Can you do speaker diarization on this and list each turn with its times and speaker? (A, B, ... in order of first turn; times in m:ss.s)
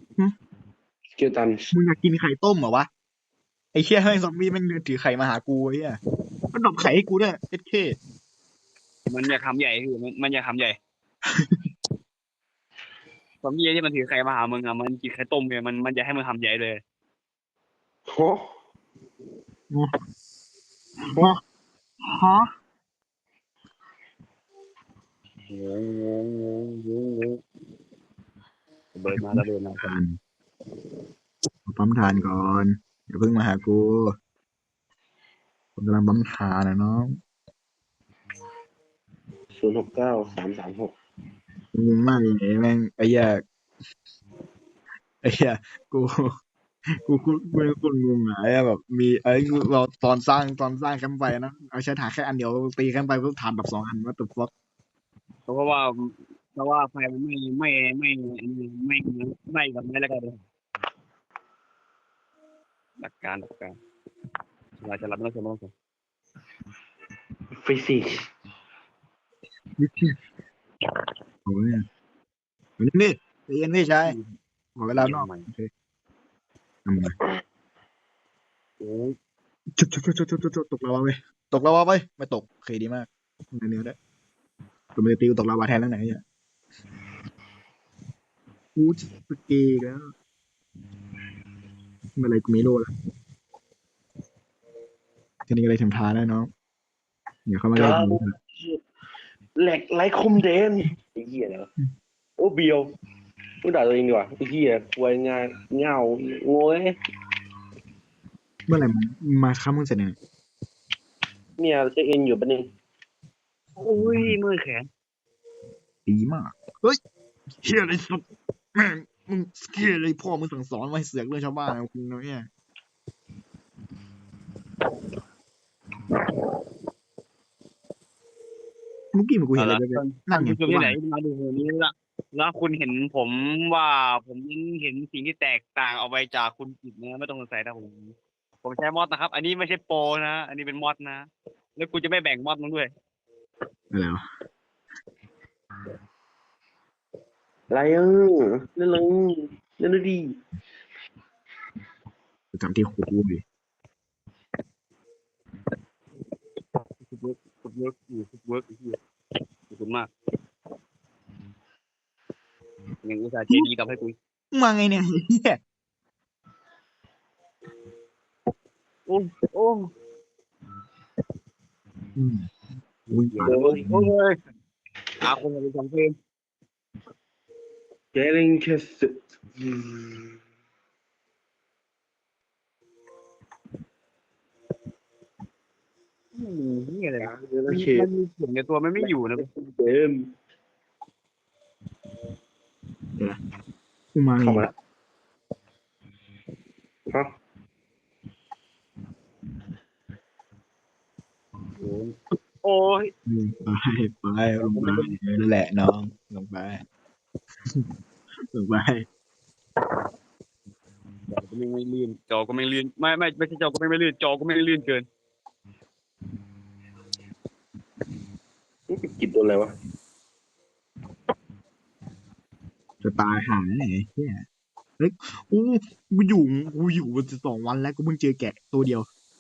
0:01.2-0:01.7 A
0:01.7-0:02.9 B
0:03.7-0:06.0 B
0:06.5-0:08.0 B
0:09.1-0:10.8 C
0:11.3-0:11.7 B
0:13.4-0:16.8 C
0:18.1-0:18.5 A
0:21.0-0:21.4 B
0:22.0-0:22.5 B
0:25.5-0:27.4 C
0:28.9-0:29.9 C
0:29.1-0:30.2 B
0:31.6-0:34.1 B
0:35.8-0:37.2 B
0:39.6-0:40.9 A
0:41.7-0:43.4 B
0:45.2-0:46.4 B
0:47.0-0:54.5 B
0:55.5-1:00.4 C
1:03.0-1:03.7 C
1:04.8-1:05.7 C
1:07.5-1:08.2 A
1:09.8-1:10.2 B
1:11.4-1:11.8 B
1:12.8-1:14.2 B
1:14.0-1:14.4 C
1:14.8-1:15.7 B
1:15.0-1:15.5 C
1:16.8-1:17.1 B
1:18.8-1:19.2 C
1:19.8-1:24.0 B
1:25.0-1:26.2 B
1:28.8-1:30.1 B
1:32.2-1:32.9 B
1:35.5-1:36.5 B
1:37.5-1:38.3 B
1:37.8-1:38.8 A
1:39.6-1:41.7 A
1:42.4-1:42.9 A
1:43.6-1:47.0 A
1:48.7-1:50.2 B
1:51.6-1:52.7 A
1:53.8-1:54.9 C
1:54.0-1:54.4 B
1:56.0-1:57.0 B
1:57.6-2:02.5 B
2:09.1-2:11.0 B
2:09.6-2:22.9 C
2:23.9-2:24.2 B
2:27.7-2:30.4 A
2:32.5-2:33.4 B
2:37.0-2:39.0 C
2:39.7-2:40.1 C
2:43.0-2:44.2 C
2:44.5-2:45.6 B
2:49.1-2:49.9 C
2:52.2-2:52.5 B
2:53.1-2:54.4 C
2:53.1-2:54.1 B
2:53.4-2:53.8 A
2:55.2-2:56.1 C
2:58.1-3:00.4 A
3:06.3-3:09.4 C
3:07.2-3:08.1 A
3:09.0-3:10.3 A
3:14.1-3:14.7 B
3:14.4-3:14.7 A
3:21.8-3:23.1 C
3:23.2-3:26.8 B
3:24.6-3:25.2 C
3:28.5-3:29.1 B
3:31.3-3:35.0 C
3:38.9-3:39.7 A
3:43.0-3:44.4 B
3:45.0-3:49.1 B